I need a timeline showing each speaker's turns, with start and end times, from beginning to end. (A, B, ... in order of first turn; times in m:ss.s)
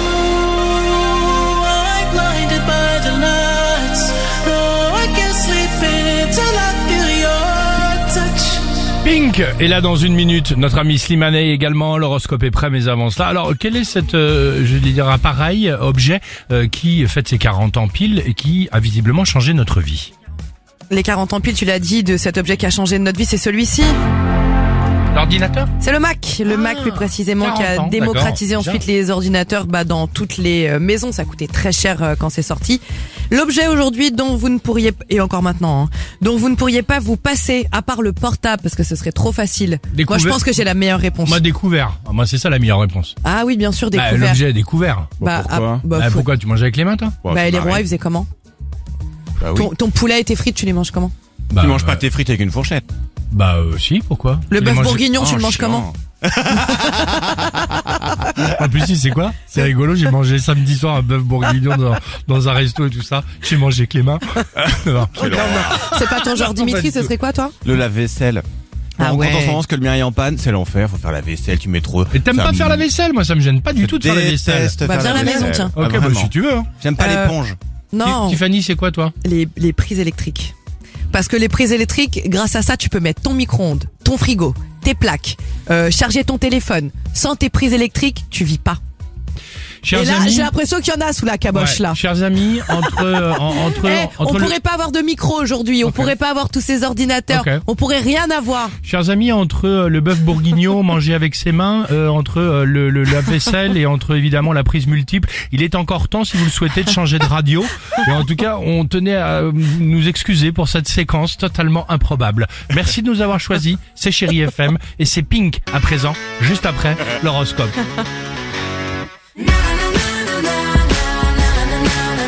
0:01.3-0:08.8 A
0:09.0-0:20.1 B
0:20.9-0:24.0 C
0:25.1-0:25.7 B
0:25.8-0:41.4 C
0:26.5-0:28.8 B
0:39.9-0:40.5 B
0:41.2-0:43.2 B
0:43.2-0:44.4 C
0:43.9-0:45.2 B
0:45.2-0:45.8 D
0:45.2-0:46.3 C
0:45.9-0:47.2 B
0:47.2-0:47.8 D
0:47.3-0:48.3 C
0:49.4-0:49.7 D
0:49.5-0:51.1 C
0:51.5-0:52.0 B
0:51.6-0:52.9 D
0:53.3-0:55.0 B
0:54.5-0:55.9 C
0:55.2-0:57.7 D
0:58.4-1:07.1 B
1:05.1-1:05.9 D
1:05.2-1:07.6 C
1:07.6-1:08.5 D
1:09.0-1:09.6 C
1:09.0-1:12.9 D
1:12.1-1:16.7 B
1:13.8-1:17.6 D
1:14.8-1:15.8 C
1:17.0-1:17.4 C
1:17.9-1:18.4 C
1:18.0-1:19.2 B
1:19.2-1:20.5 C
1:21.1-1:28.8 C
1:29.8-1:30.5 B
1:29.9-1:32.0 C
1:31.5-1:34.6 B
1:33.5-1:38.8 C
1:35.8-1:36.1 B
1:37.3-1:37.6 B
1:38.8-1:57.8 B